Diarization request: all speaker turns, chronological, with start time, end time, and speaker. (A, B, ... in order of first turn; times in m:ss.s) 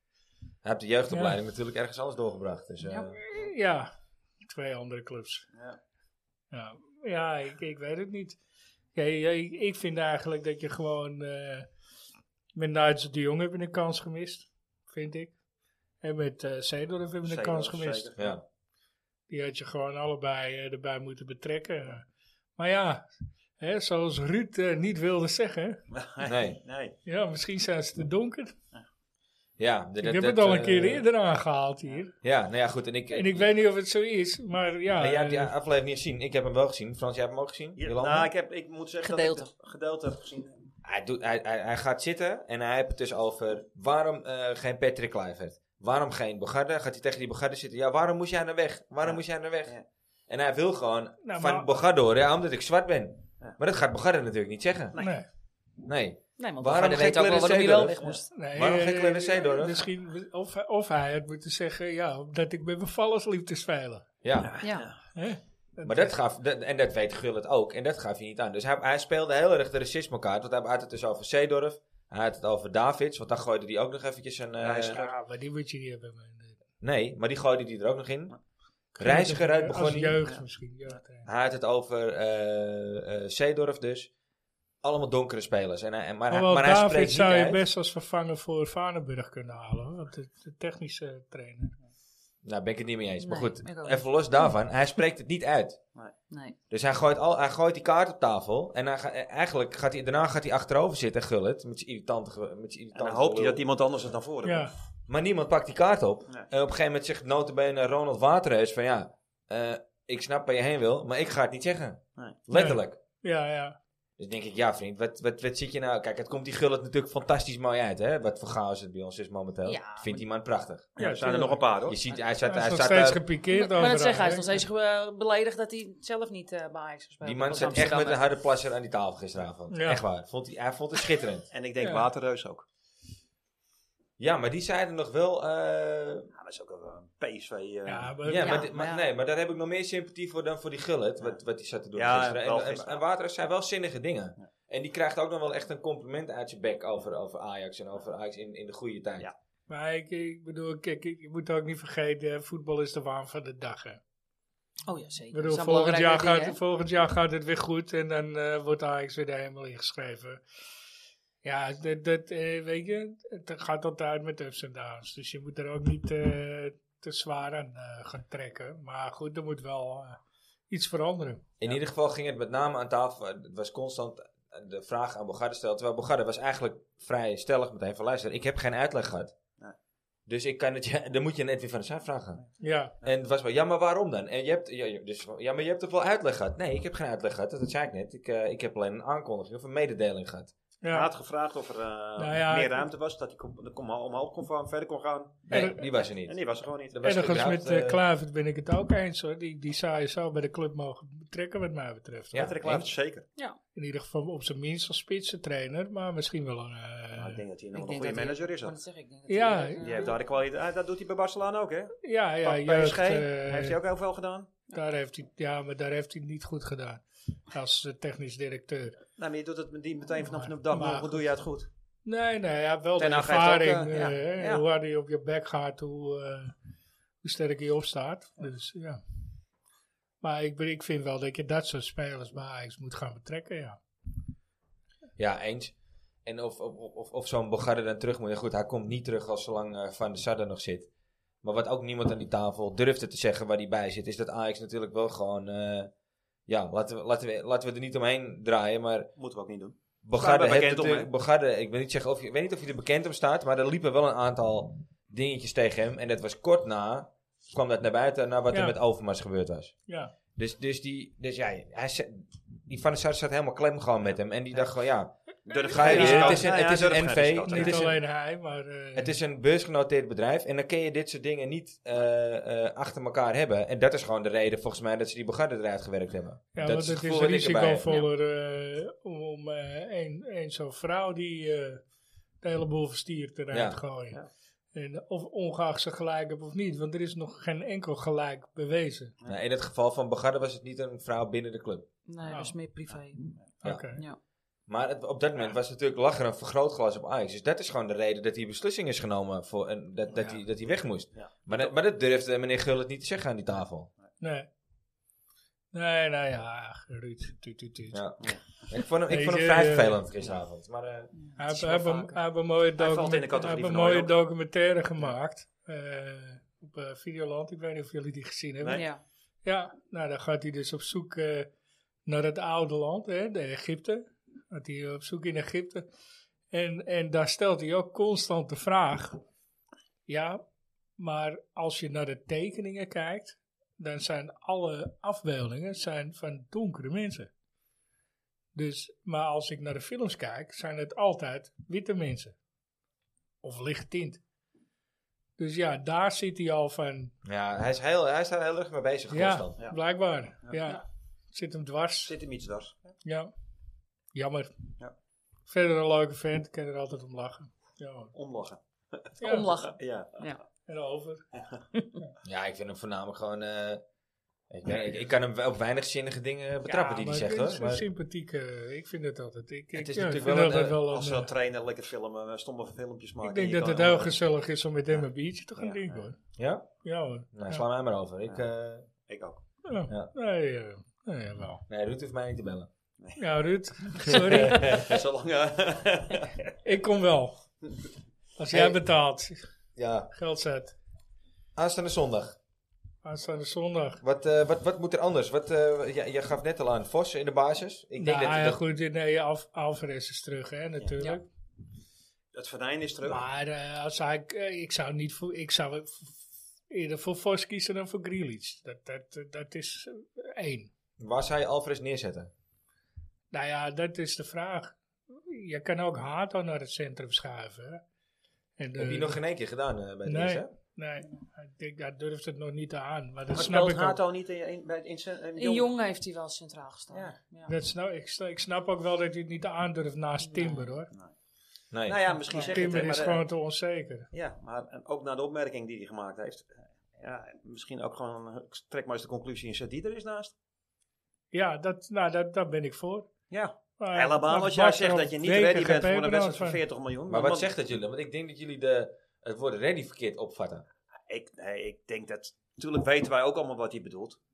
0:00.6-0:03.2 A
0:01.1-0:01.4 B
0:02.8-0:03.1 C
0:03.1-0:03.9 B
0:04.4-0:05.5 B
0:05.5-0:05.8 D
0:06.5-0:08.4 B
0:09.0-0:11.7 B
0:12.6-0:15.4 B
0:16.0-0:18.1 B
0:17.2-0:18.4 D
0:18.2-0:18.4 A
0:19.3-0:22.1 B
0:22.6-0:25.8 B
0:25.9-0:27.0 D
0:26.2-0:26.6 A
0:27.0-0:28.6 B
0:29.6-0:31.1 A
0:30.0-0:32.1 B
0:32.2-0:33.5 A
0:33.1-0:35.5 B
0:35.0-0:38.3 A
0:37.8-0:40.7 D
0:39.0-0:39.5 C
0:40.8-0:49.8 A
0:49.0-0:49.8 D
0:50.3-0:55.0 A
0:51.2-0:51.7 B
0:55.0-0:55.3 B
0:55.8-0:59.9 A
0:56.4-0:58.2 C
0:57.8-0:58.2 D
0:58.3-1:04.1 B
1:04.2-1:04.6 A
1:04.4-1:05.0 D
1:04.6-1:04.9 C
1:05.2-1:06.2 B
1:05.8-1:15.0 A
1:14.6-1:15.1 D
1:14.9-1:16.6 B
1:16.8-1:18.4 A
1:19.0-1:21.3 B
1:19.0-1:20.2 A
1:20.3-1:21.0 D
1:21.2-1:24.1 A
1:24.8-1:27.6 A
1:26.3-1:31.8 B
1:32.4-1:35.8 A
1:33.2-1:34.6 C
1:36.3-1:36.6 C
1:36.7-1:43.6 A
1:42.9-1:44.7 D
1:44.4-1:44.7 B
1:45.1-1:53.0 A
1:52.5-1:53.8 B
1:54.2-2:01.0 A
1:59.6-2:00.2 C
2:01.0-2:02.0 D
2:01.0-2:01.6 B
2:01.9-2:03.2 A
2:02.4-2:04.5 B
2:03.5-2:08.3 C
2:07.2-2:11.5 A
2:09.7-2:10.0 B
2:11.5-2:12.6 D
2:11.8-2:12.1 B
2:14.2-2:16.3 A
2:16.3-2:18.2 D
2:17.9-2:18.7 B
2:18.2-2:29.3 A
2:18.4-2:19.1 C
2:22.0-2:23.0 D
2:29.7-2:34.0 B
2:34.9-2:36.6 C
2:35.3-2:40.4 B
2:41.4-2:50.2 B
2:50.7-2:51.4 B
2:51.6-2:59.4 A
3:00.3-3:02.4 A
3:02.6-3:03.0 B
3:03.0-3:10.5 A
3:10.8-3:11.1 B
3:10.9-3:15.7 D
3:12.2-3:12.9 B
3:15.5-3:18.0 A
3:15.5-3:15.8 B
3:16.2-3:17.0 D
3:17.0-3:22.5 B
3:22.3-3:22.9 A
3:22.3-3:23.2 D
3:23.8-3:27.4 B
3:27.1-3:28.8 D
3:27.7-3:30.2 C
3:29.3-3:29.8 B
3:29.8-3:34.5 D
3:32.0-3:33.8 B
3:34.7-3:39.0 B
3:39.2-3:41.7 D
3:40.2-3:41.3 B
3:42.1-3:46.5 B
3:43.0-3:44.6 D
3:47.2-3:49.0 B
3:50.2-3:53.8 B
3:55.2-3:55.7 A
3:56.2-4:00.9 A
4:01.4-4:05.9 A
4:06.5-4:09.1 A
4:09.2-4:11.1 D
4:10.0-4:19.8 A
4:18.5-4:18.8 B
4:19.9-4:20.1 B
4:20.4-4:28.0 A
4:25.5-4:27.9 D
4:25.7-4:26.5 B
4:27.5-4:29.2 B
4:29.0-4:37.9 A
4:36.6-4:41.8 B
4:42.4-4:44.2 B
4:43.5-4:43.8 A
4:44.7-4:49.2 B
4:49.3-4:51.9 A
4:52.1-4:53.4 C
4:52.3-4:52.6 B
4:52.9-4:53.4 D
4:53.6-4:54.0 B
4:54.7-5:03.9 A
5:00.1-5:00.4 B
5:01.2-5:01.8 D
5:04.2-5:04.5 B
5:05.7-5:08.0 B
5:07.9-5:11.1 A
5:09.1-5:10.1 B
5:11.2-5:12.2 C
5:11.4-5:18.8 B
5:12.8-5:14.2 D
5:18.7-5:19.0 C
5:19.4-5:21.5 B
5:22.1-5:25.8 B
5:26.5-5:29.2 B
5:30.1-5:30.4 B
5:31.0-5:37.3 B
5:38.5-5:42.4 B
5:43.4-5:44.2 B
5:45.4-5:47.1 B
5:47.2-5:49.6 A
5:49.1-5:52.1 B
5:50.4-5:50.8 D
5:52.0-5:52.9 D
5:53.0-5:53.3 B
5:54.2-5:54.5 B
5:55.5-5:58.1 B
5:58.1-6:00.3 D
5:59.2-5:59.5 B
5:59.2-6:00.4 C
6:00.7-6:01.2 B
6:02.2-6:03.8 A
6:04.5-6:07.8 A
6:06.9-6:11.3 B
6:09.7-6:10.8 A
6:10.9-6:14.2 D
6:13.2-6:16.2 B
6:15.6-6:16.1 D
6:16.4-6:16.7 A
6:16.8-6:17.7 B
6:17.3-6:18.9 A
6:19.0-6:19.4 D
6:19.6-6:21.6 B
6:21.7-6:22.7 A
6:23.2-6:24.9 B
6:24.1-6:25.0 A
6:24.2-6:26.4 D
6:26.6-6:27.5 B
6:28.4-6:29.4 B
6:28.5-6:28.8 A
6:29.8-6:30.1 A
6:30.1-6:30.8 B
6:31.6-6:32.4 A
6:33.0-6:34.0 B
6:34.0-6:38.6 A
6:38.0-6:41.3 B
6:42.3-6:43.2 D
6:43.0-6:50.7 B
6:51.0-6:52.3 A
6:53.3-6:57.8 B
6:58.6-6:59.2 B
6:58.8-7:00.5 A
7:00.0-7:04.0 B
7:03.3-7:05.7 D
7:05.4-7:07.5 C
7:07.5-7:10.9 B
7:10.3-7:10.7 C
7:11.7-7:12.2 A
7:11.9-7:13.3 D
7:12.3-7:14.1 B
7:14.1-7:20.3 D
7:21.3-7:23.1 B
7:23.3-7:27.5 D
7:23.8-7:26.6 B
7:27.1-7:30.7 A
7:31.1-7:34.2 D